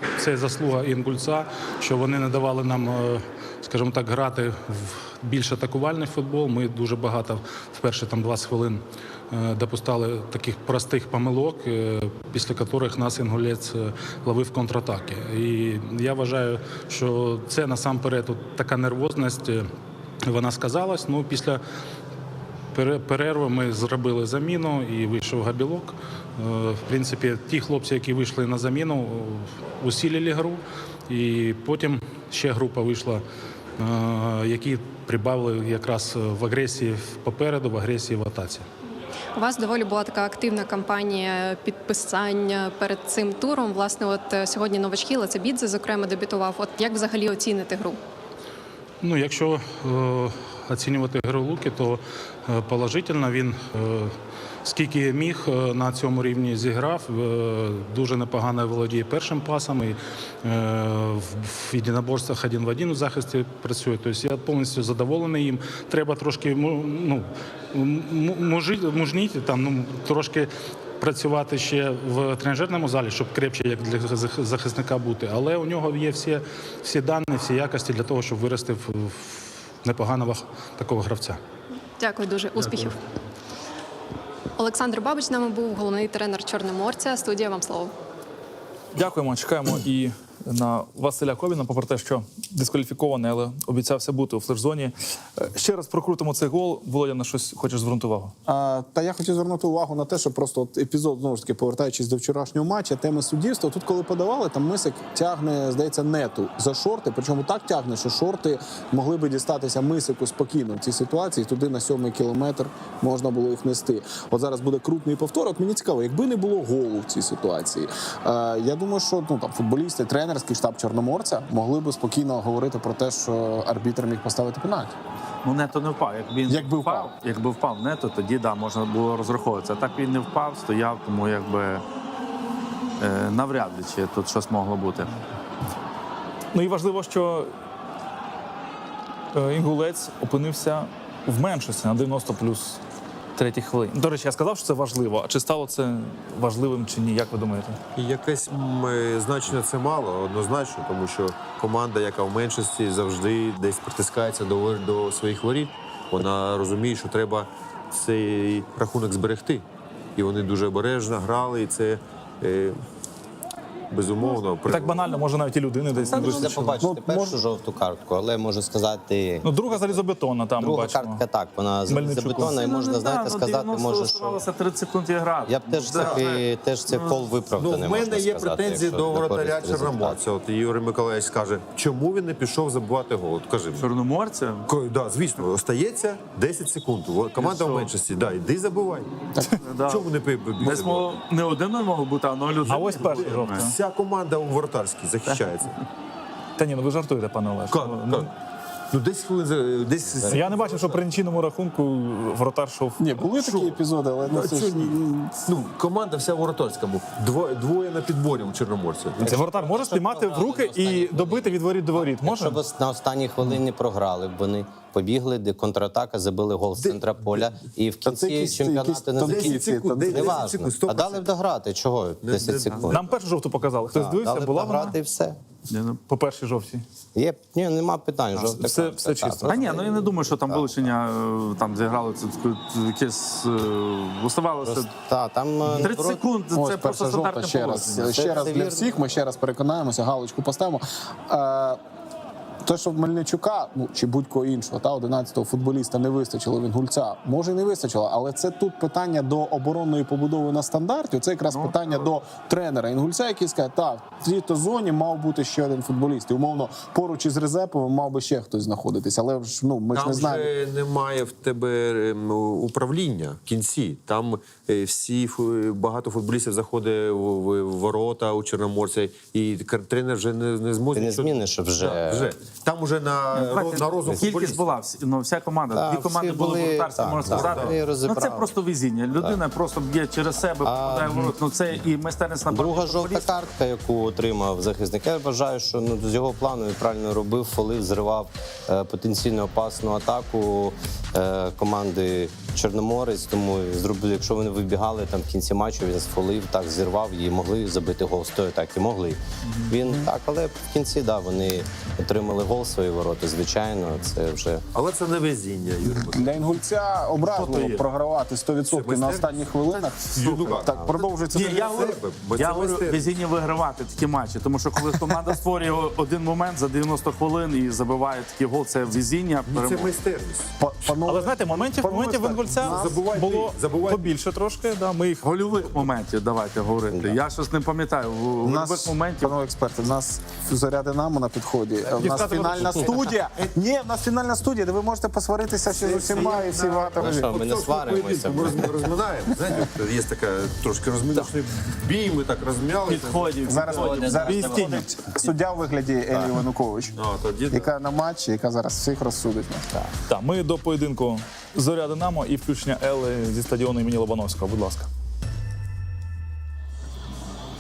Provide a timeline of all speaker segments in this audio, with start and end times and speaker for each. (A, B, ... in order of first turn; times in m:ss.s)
0:00.2-0:19.7 A
0:20.2-0:21.6 A
0:22.7-0:33.2 A
0:33.8-0:38.7 A
0:39.4-0:48.0 B
0:49.0-1:21.4 A
1:22.0-1:23.0 B
1:24.6-1:27.9 B
1:29.0-1:38.3 C
1:38.5-2:04.9 D
2:05.4-2:11.8 E
2:06.5-2:07.1 D
2:13.0-2:15.1 E
2:16.5-2:17.5 C
2:19.3-2:22.8 C
2:23.4-2:27.8 C
2:28.0-2:39.6 F
2:40.2-2:42.8 F
2:43.9-2:45.0 F
2:44.7-2:46.8 C
2:46.0-2:50.0 G
2:46.2-2:47.4 D
2:49.4-2:51.2 C
2:50.6-2:54.5 G
2:51.9-2:52.6 C
2:52.5-2:57.2 E
2:55.5-3:00.2 G
2:55.9-2:56.2 F
2:57.6-3:03.9 F
3:03.8-3:04.7 E
3:04.7-3:09.1 F
3:07.4-3:07.9 E
3:09.6-3:10.1 E
3:09.9-3:11.2 F
3:10.6-3:13.7 E
3:12.6-3:15.8 F
3:12.7-3:13.7 C
3:16.6-3:18.3 C
3:17.7-3:18.3 F
3:18.9-3:21.0 F
3:20.2-3:20.4 G
3:20.3-3:23.2 C
3:23.0-3:25.4 D
3:23.4-3:23.8 F
3:24.3-3:24.9 F
3:25.5-3:29.4 F
3:29.2-3:32.6 C
3:29.2-3:43.1 G
3:38.0-3:40.5 D
3:39.2-3:41.3 F
3:42.2-3:43.0 F
3:42.9-3:45.0 C
3:43.9-3:45.4 G
3:45.7-3:46.0 E
3:46.1-3:46.8 C
3:47.2-3:50.9 G
3:48.4-3:49.6 C
3:49.5-3:54.9 E
3:54.6-3:56.2 G
3:55.7-3:58.2 E
3:56.6-4:01.8 D
3:58.0-3:59.0 G
4:02.6-4:20.5 D
4:11.5-4:12.1 E
4:19.9-4:34.6 F
4:30.9-4:32.3 G
4:33.4-4:43.4 E
4:34.1-4:34.4 G
4:35.7-4:38.5 G
4:37.2-4:37.8 F
4:40.6-4:41.4 G
4:42.5-5:04.6 G
5:04.7-5:06.5 F
5:06.0-5:11.9 D
5:07.2-5:07.8 E
5:08.7-5:13.1 F
5:10.7-5:11.0 G
5:11.3-5:19.9 E
5:19.5-5:20.5 F
5:20.6-5:23.0 D
5:21.1-5:25.3 C
5:22.6-5:24.1 F
5:25.2-5:29.3 E
5:26.9-5:27.2 G
5:28.4-5:37.4 D
5:32.0-5:33.2 C
5:32.1-5:33.5 F
5:35.7-5:44.2 F
5:37.0-5:38.9 G
5:42.9-5:44.8 E
5:43.4-5:47.0 D
5:44.2-5:44.9 C
5:47.0-5:47.7 F
5:47.5-5:49.7 D
5:50.1-5:54.9 C